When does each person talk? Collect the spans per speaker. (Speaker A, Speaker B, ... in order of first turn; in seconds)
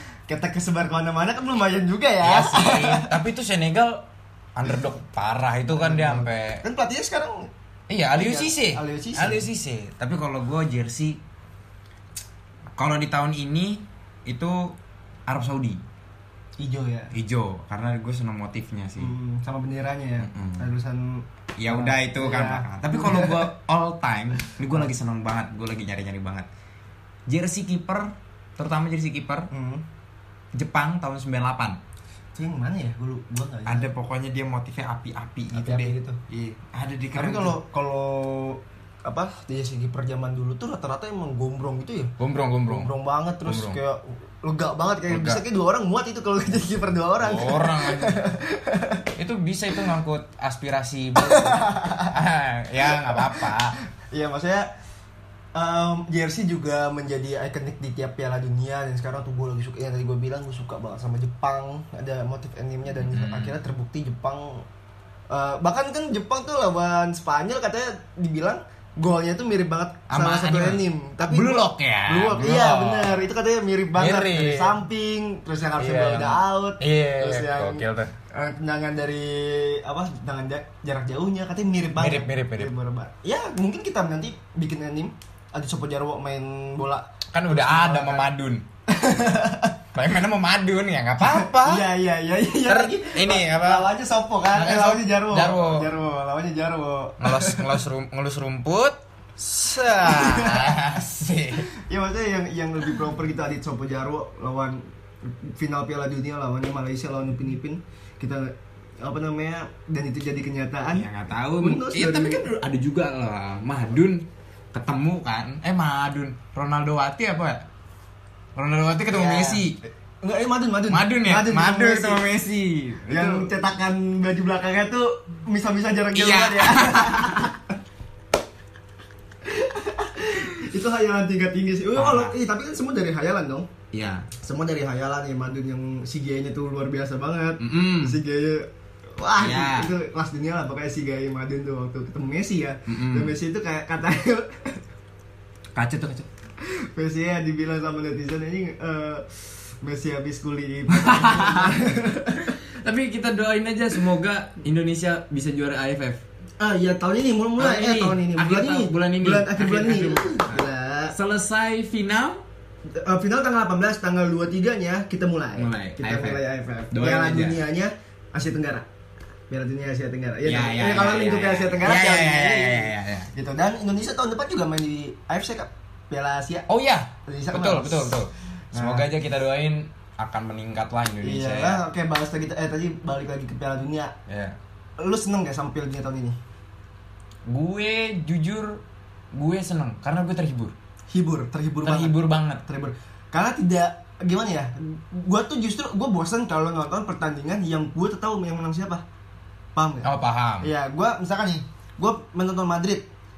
Speaker A: 0.3-3.1, 5.7-7.5, 8.1-9.5, 16.6-17.1, 19.0-23.5, 29.5-29.8, 32.4-33.9, 35.5-36.2, 37.1-42.1, 42.7-49.1, 51.3-52.1, 52.8-53.6, 54.1-54.7, 55.5-64.7, 65.3-88.3, 88.9-89.8, 91.2-97.8, 100.0-101.0, 101.7-112.5, 119.1-122.2, 123.1-127.7, 129.4-133.7, 134.4-144.8, 146.6-152.6, 156.6-161.2, 162.9-168.9, 169.5-176.7, 177.3-178.2, 178.7-179.1, 181.2-184.1, 185.0-186.4, 191.1-199.0, 199.8-200.1, 200.6-203.1
Speaker B: 2.2-6.6, 7.9-11.2, 12.8-14.8, 15.3-15.8, 17.1-19.1, 20.2-20.7, 21.6-26.5, 27.3-29.5, 30.5-31.8, 33.7-37.6, 42.2-42.9, 43.5-43.8, 45.1-45.4, 47.2-48.2, 49.2-53.8, 63.0-63.6, 70.1-73.2, 74.0-74.8, 75.8-78.1, 82.0-82.7, 87.3-88.7, 90.0-91.9, 92.7-93.9, 94.5-95.9, 97.2-101.7, 110.9-117.7, 118.6-119.8, 120.9-123.5, 126.1-127.5, 132.0-132.3, 133.9-134.3, 137.6-138.2, 139.4-139.9, 142.9-143.3, 145.8-146.3, 150.9-156.2, 157.6-162.4, 165.6-167.6, 170.4-173.3, 176.7-181.8, 184.3-184.6, 187.5-188.8, 189.3-190.7, 191.8-192.6, 200.0-200.7